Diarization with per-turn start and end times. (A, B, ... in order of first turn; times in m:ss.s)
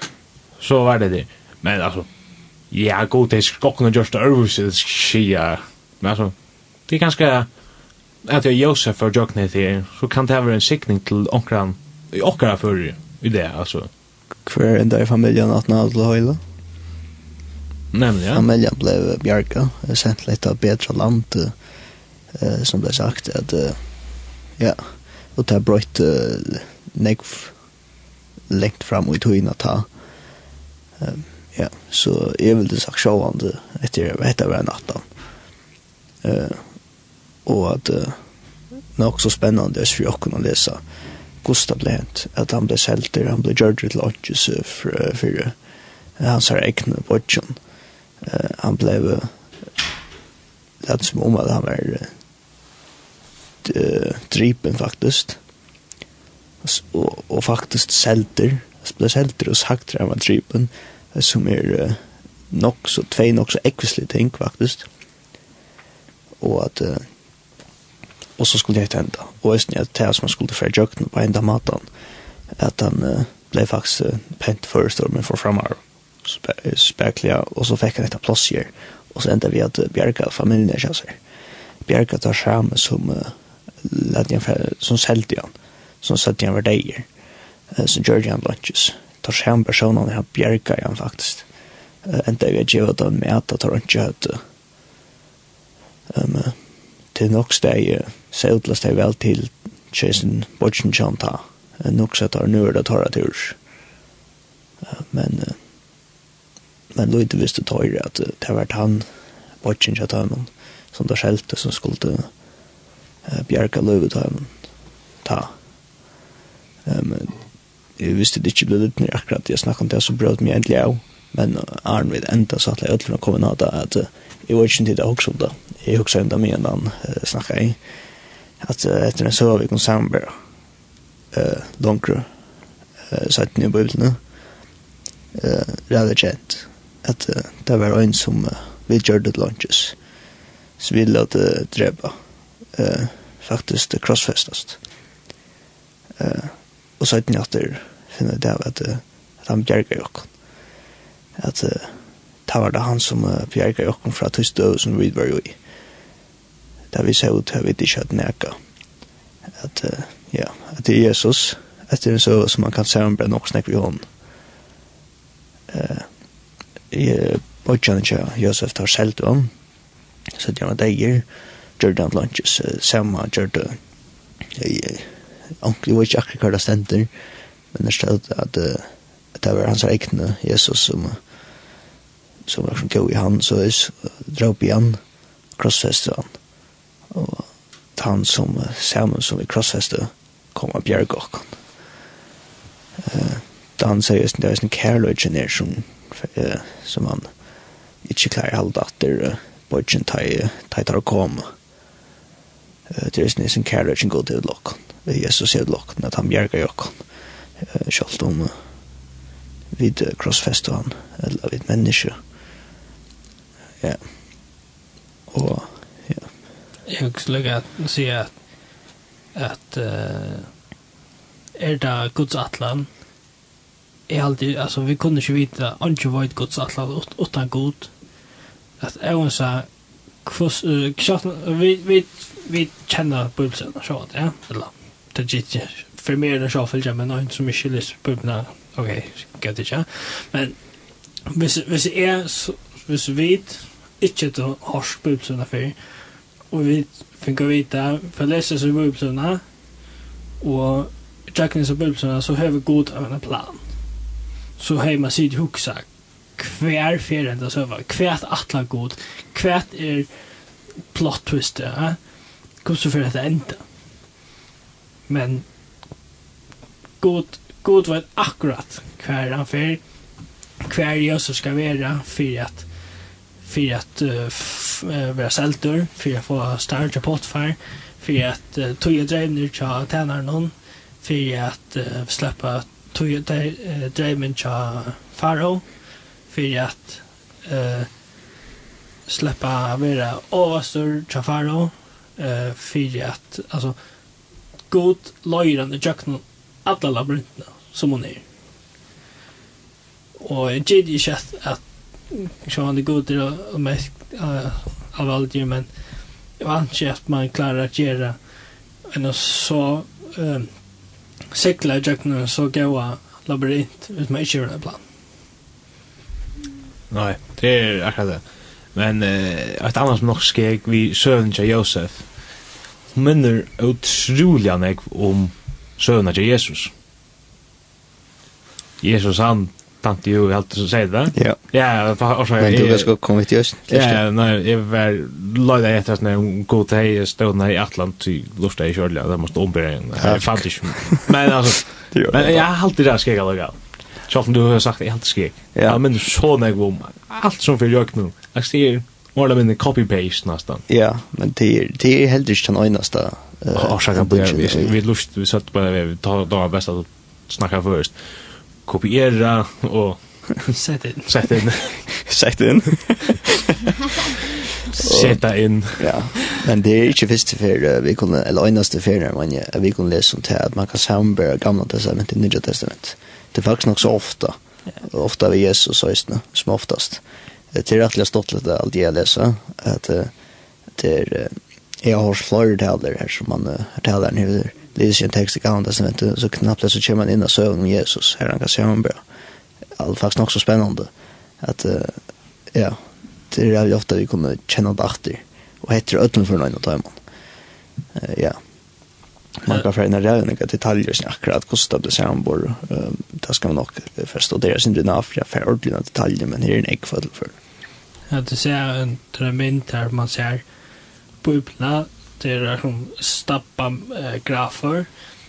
0:00.6-0:02.1 A
0:02.7-0:06.3 A
0:06.9-0:07.5 A
0:08.2-0:13.9 A
0:14.4-0:16.4 B
0:17.9-0:18.4 A
0:18.3-0:21.5 B
0:22.3-0:23.8 B
0:24.5-0:27.6 B
0:28.5-0:29.9 B
0:31.0-0:35.1 B
0:36.2-0:36.8 B
0:37.4-0:38.3 B
0:39.0-0:40.8 B
0:41.4-0:45.6 B
0:46.2-0:47.6 B
0:48.2-0:49.6 B
0:50.8-0:52.1 B
0:53.6-0:55.4 B
0:56.6-1:04.9 B
1:06.4-1:07.1 B
1:08.4-1:11.9 B
1:12.5-1:21.2 B
1:21.8-1:27.1 B
1:27.7-1:31.5 B
1:32.0-1:34.4 B
1:36.1-1:43.6 B
1:44.8-1:45.6 B
1:46.9-1:49.1 B
1:49.6-1:52.3 B
1:53.2-1:54.5 B
1:55.2-1:55.5 B
1:56.8-1:57.4 B
1:58.0-2:07.8 B
2:08.6-2:10.3 B
2:11.3-2:12.3 B
2:13.1-2:14.2 B
2:15.3-2:20.0 B
2:20.8-2:22.2 B
2:22.7-2:24.8 B
2:26.2-2:30.3 B
2:31.4-2:35.6 B
2:36.9-2:38.6 B
2:39.5-2:44.1 B
2:45.7-2:46.1 B
2:46.9-2:49.5 B
2:50.3-2:53.8 B
2:54.5-2:57.1 B
2:57.7-3:01.2 B
3:02.4-3:05.0 B
3:05.6-3:06.4 B
3:07.1-3:11.6 B
3:13.0-3:17.3 B
3:18.0-3:21.5 B
3:22.9-3:27.0 B
3:27.6-3:28.6 B
3:29.7-3:32.2 B
3:35.3-3:36.3 B
3:36.9-3:38.4 C
3:39.3-3:40.5 C
3:41.6-3:42.9 C
3:44.1-3:47.9 C
3:48.8-3:49.7 C
3:50.2-4:00.7 C
4:01.3-4:09.4 C
4:10.4-4:14.0 C
4:14.6-4:23.6 C
4:25.1-4:25.4 C
4:27.0-4:29.8 C
4:30.6-4:47.9 C
4:49.0-4:54.2 C
4:54.7-4:58.2 C
5:00.2-5:14.8 C
5:16.9-5:22.1 A
5:22.9-5:26.7 A
5:28.8-5:32.9 A
5:31.1-5:31.4 B
5:32.4-5:34.0 B
5:33.7-5:50.6 A
5:40.0-5:41.2 B
5:41.9-5:42.4 B
5:45.5-5:45.8 B
5:50.7-5:54.7 B
5:53.5-6:00.5 A
6:00.5-6:01.1 C
6:01.0-6:01.9 A
6:02.0-6:03.3 B
6:04.8-6:06.0 A
6:04.8-6:05.2 B
6:05.7-6:20.1 B
6:20.7-6:29.0 B
6:29.8-6:37.0 B
6:37.9-6:38.4 B
6:39.4-6:47.4 B
6:48.1-6:50.4 C
6:51.2-6:54.9 C